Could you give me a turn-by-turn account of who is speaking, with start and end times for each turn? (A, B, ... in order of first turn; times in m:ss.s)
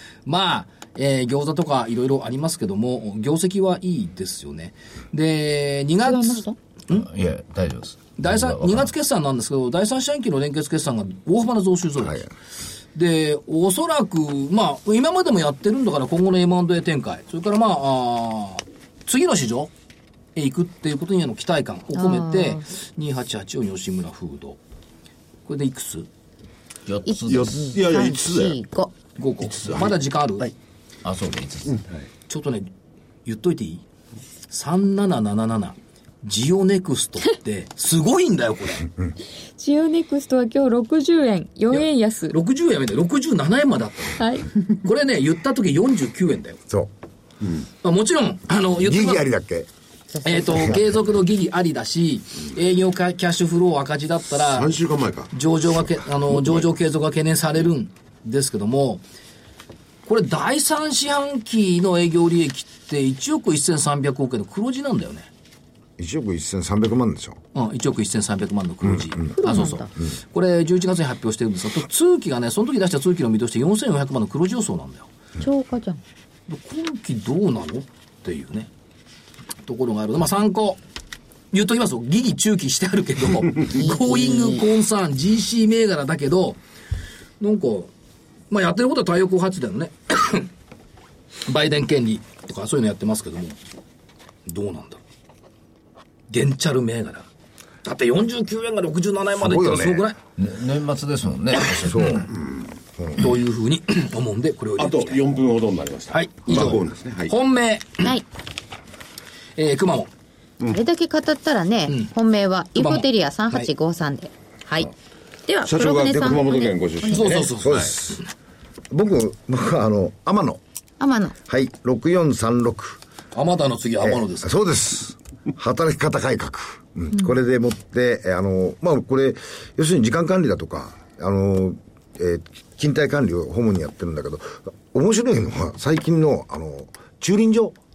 0:00.2-0:07.1 A
0:06.0-0:06.6 B
0:06.9-0:08.9 C
0:08.2-0:12.3 A
0:12.9-0:19.7 A
0:20.4-0:24.6 A
0:21.9-0:22.7 B
0:25.4-0:26.1 A
0:26.9-0:27.7 C
0:27.0-0:28.9 B
0:27.3-0:28.5 D
0:29.2-0:30.5 A
0:31.0-0:31.8 C
0:31.7-0:32.0 D
0:32.3-0:32.7 A
0:33.2-0:33.8 A
0:34.5-0:38.9 A
0:39.6-0:42.4 B
0:41.7-0:46.6 A
0:44.2-0:44.6 B
0:47.8-0:49.3 A
0:48.8-0:49.7 E
0:50.1-0:50.8 B
0:50.2-0:54.8 A
0:54.3-0:55.3 D
0:55.3-0:59.0 A
1:00.0-1:05.3 A
1:06.0-1:07.4 E
1:07.5-1:15.1 A
1:09.4-1:09.9 B
1:15.4-1:16.0 B
1:16.5-1:18.7 A
1:19.6-1:20.8 A
1:21.5-1:26.6 A
1:23.7-1:24.6 B
1:27.4-1:27.9 A
1:28.5-1:30.5 A
1:31.5-1:33.6 A
1:34.4-1:35.0 A
1:36.3-1:37.3 A
1:37.8-1:40.2 A
1:39.4-1:40.0 E
1:40.4-1:42.2 C
1:41.7-1:42.1 A
1:41.9-1:42.3 E
1:43.0-1:43.3 E
1:43.2-1:45.2 A
1:44.8-1:47.4 D
1:46.1-1:48.1 A
1:49.6-1:50.1 A
1:50.7-1:54.9 B
1:52.8-1:53.7 A
1:55.5-1:57.4 B
1:55.6-1:57.9 D
1:57.1-1:58.2 A
1:57.6-1:58.2 E
1:58.9-2:00.6 E
2:01.0-2:01.4 B
2:01.5-2:03.0 E
2:03.3-2:04.5 A
2:04.0-2:17.8 E